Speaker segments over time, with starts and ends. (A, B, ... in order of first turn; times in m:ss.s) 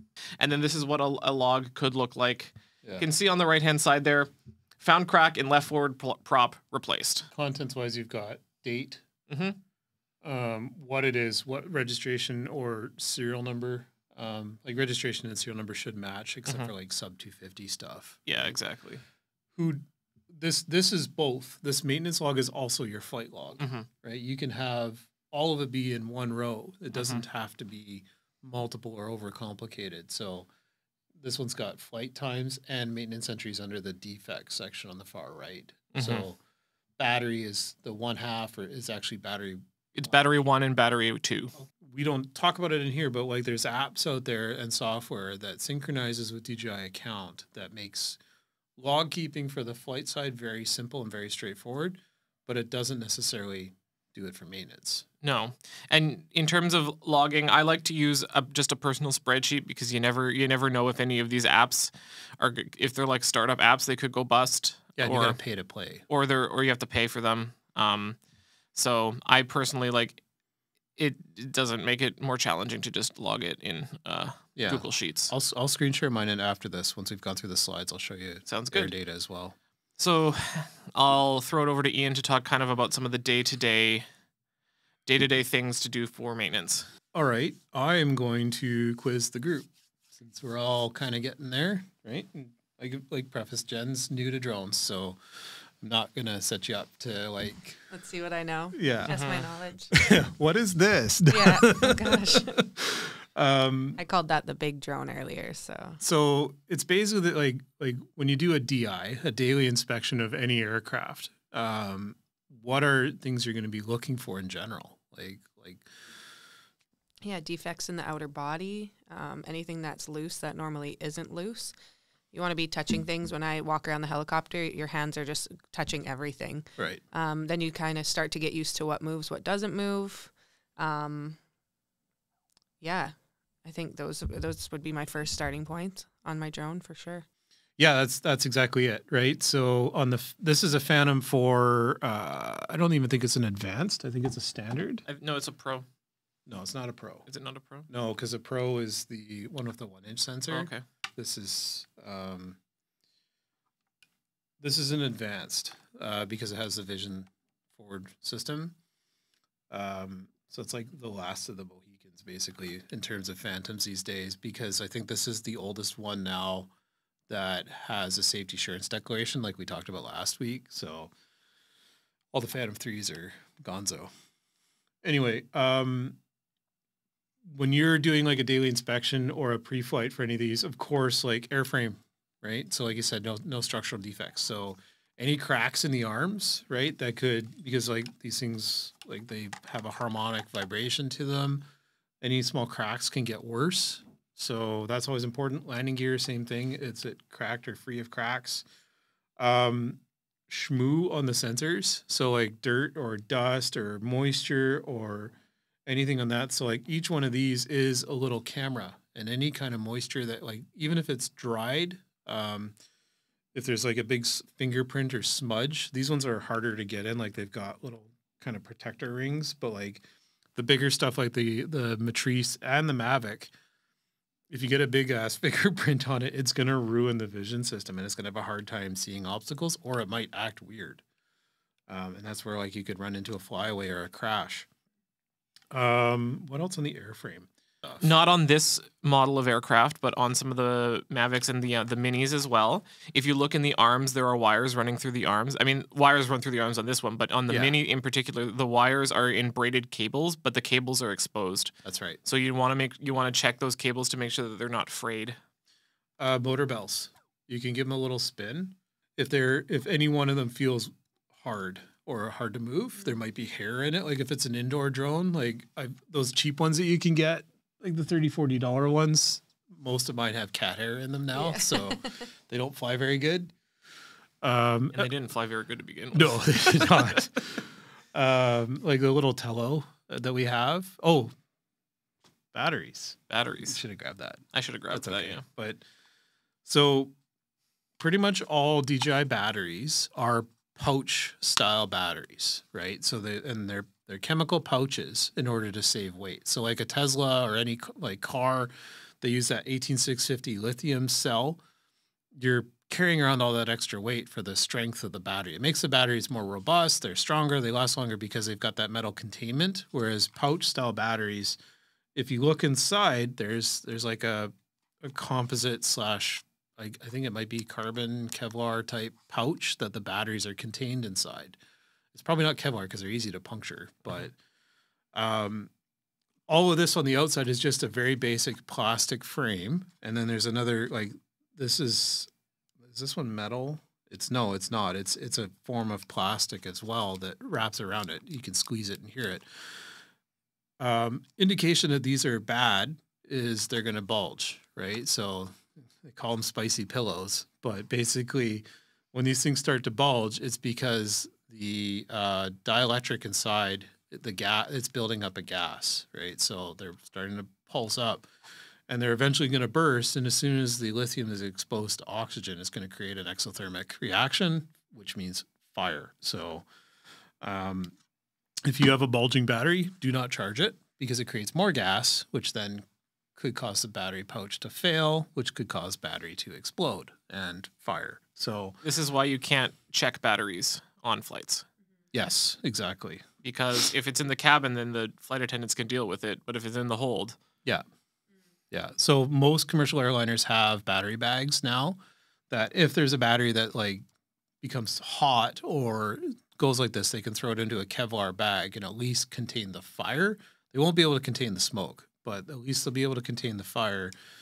0:00.4-0:07.3 A
0:07.3-0:09.0 B
0:09.3-0:09.6 A
0:10.2-0:18.2 B
0:18.3-0:19.0 A
0:19.6-0:30.5 B
0:23.6-0:23.9 A
0:26.9-0:27.2 A
0:31.2-0:36.4 B
0:35.9-0:36.2 A
0:37.0-0:39.6 B
0:40.0-0:41.5 A
0:41.6-0:48.2 B
0:48.8-0:55.1 B
0:55.2-1:05.4 A
1:05.0-1:06.0 B
1:06.1-1:08.2 A
1:08.7-1:10.2 A
1:11.0-1:15.3 A
1:14.6-1:19.6 B
1:18.5-1:18.9 A
1:20.0-1:24.1 A
1:25.1-1:26.9 A
1:27.1-1:35.2 B
1:35.8-1:37.8 B
1:37.9-1:40.2 C
1:38.7-1:39.2 B
1:39.1-1:39.5 A
1:39.9-1:44.0 B
1:41.3-1:42.6 C
1:44.0-1:46.0 C
1:46.0-1:55.8 B
1:57.2-2:01.8 C
2:02.3-2:11.4 C
2:12.8-2:17.3 C
2:17.8-2:25.0 B
2:25.1-2:25.9 A
2:26.5-2:27.3 B
2:27.3-2:27.9 A
2:27.9-2:32.6 B
2:30.5-2:30.8 A
2:34.6-2:38.8 B
2:39.7-2:46.7 B
2:47.3-2:51.1 B
2:52.3-2:54.1 B
2:55.0-2:56.2 B
2:57.4-3:11.6 B
3:12.2-3:18.6 B
3:19.4-3:25.3 B
3:25.9-3:32.8 B
3:33.5-3:40.0 B
3:40.6-3:43.5 B
3:44.5-3:51.0 B
3:51.9-3:54.7 B
3:55.7-3:58.1 B
3:58.0-4:15.4 A
4:07.5-4:07.8 B
4:11.8-4:12.2 B
4:16.2-4:33.5 B
4:31.4-4:32.2 C
4:34.4-4:35.1 B
4:34.9-4:37.3 A
4:36.1-4:41.3 B
4:42.5-4:45.8 B
4:43.3-4:43.8 A
4:44.5-4:45.4 A
4:46.6-4:47.1 B
4:48.0-5:01.6 B
5:02.3-5:11.6 B
5:12.2-5:21.6 B
5:22.1-5:24.3 B
5:25.2-5:25.7 B
5:26.5-5:32.3 B
5:32.8-5:39.5 B
5:40.8-5:58.3 B
5:58.9-6:06.6 B
6:07.4-6:07.9 B
6:08.6-6:18.8 B
6:18.8-6:21.7 A
6:22.1-6:23.2 B
6:23.4-6:27.4 A
6:28.7-6:32.0 B
6:32.5-6:34.0 B
6:34.6-6:44.1 B